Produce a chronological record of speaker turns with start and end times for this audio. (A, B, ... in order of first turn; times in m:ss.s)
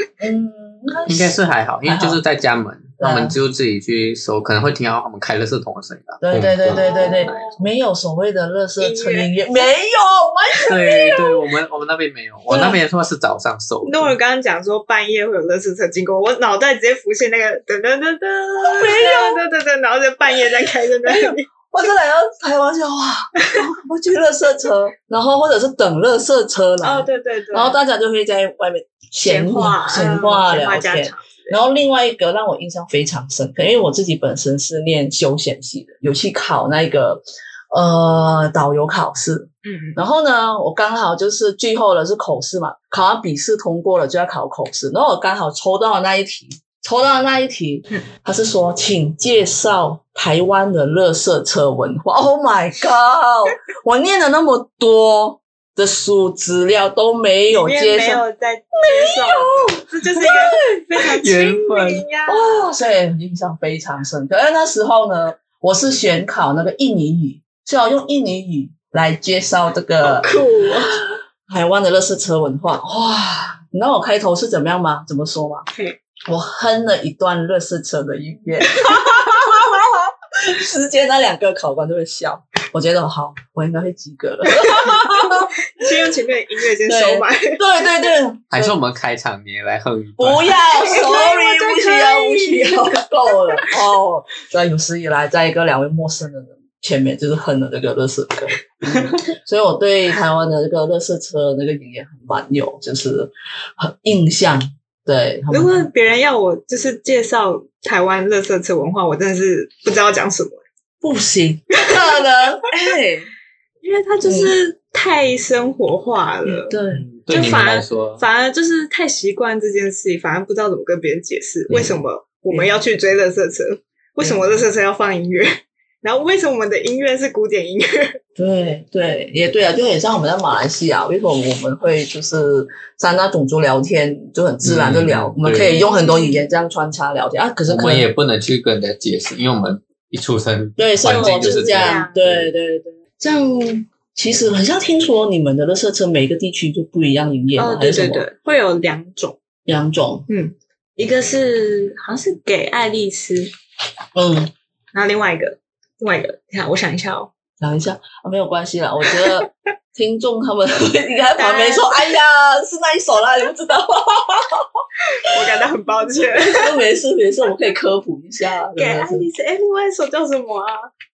0:00.2-0:02.2 A
0:01.1-0:07.6 B
0:03.0-0:03.4 A
0:06.2-0:11.0 A
0:06.7-0:07.6 C
0:08.8-0:09.7 C
0:10.5-0:11.0 C
0:10.7-0:14.1 B
0:12.5-0:12.8 A
0:13.8-0:21.5 C
0:18.6-0:19.4 A
0:21.0-0:58.2 A
0:26.8-0:27.8 C
0:29.2-0:31.6 C
0:39.6-0:40.0 C
0:57.5-1:02.6 C
0:58.9-1:00.8 A
1:01.2-1:02.0 B
1:02.3-1:10.3 A
1:10.0-1:11.0 C
1:10.9-1:15.6 A
1:16.3-1:25.9 A
1:24.6-1:27.6 C
1:26.9-1:28.8 A
1:28.5-1:30.5 B
1:30.2-1:45.9 A
1:30.7-1:33.7 C
1:38.9-1:39.2 C
1:45.5-1:50.6 C
1:51.0-1:53.3 A
1:53.8-1:56.8 C
1:54.2-1:54.5 A
1:56.4-1:57.0 A
1:56.9-1:58.2 B
1:57.3-2:08.2 C
2:02.5-2:02.8 A
2:04.2-2:04.6 A
2:08.4-2:18.1 A
2:14.6-2:15.8 B
2:15.6-2:16.4 C
2:17.7-2:22.5 B
2:20.8-2:28.2 A
2:21.0-2:22.2 C
2:27.6-2:29.4 C
2:29.6-2:30.3 A
2:30.3-2:33.5 C
2:34.1-2:34.5 A
2:34.9-2:37.3 C
2:37.6-2:44.8 A
2:39.1-2:39.4 C
2:41.4-2:42.1 C
2:45.1-2:46.8 C
2:46.4-2:49.3 A
2:48.8-2:50.9 C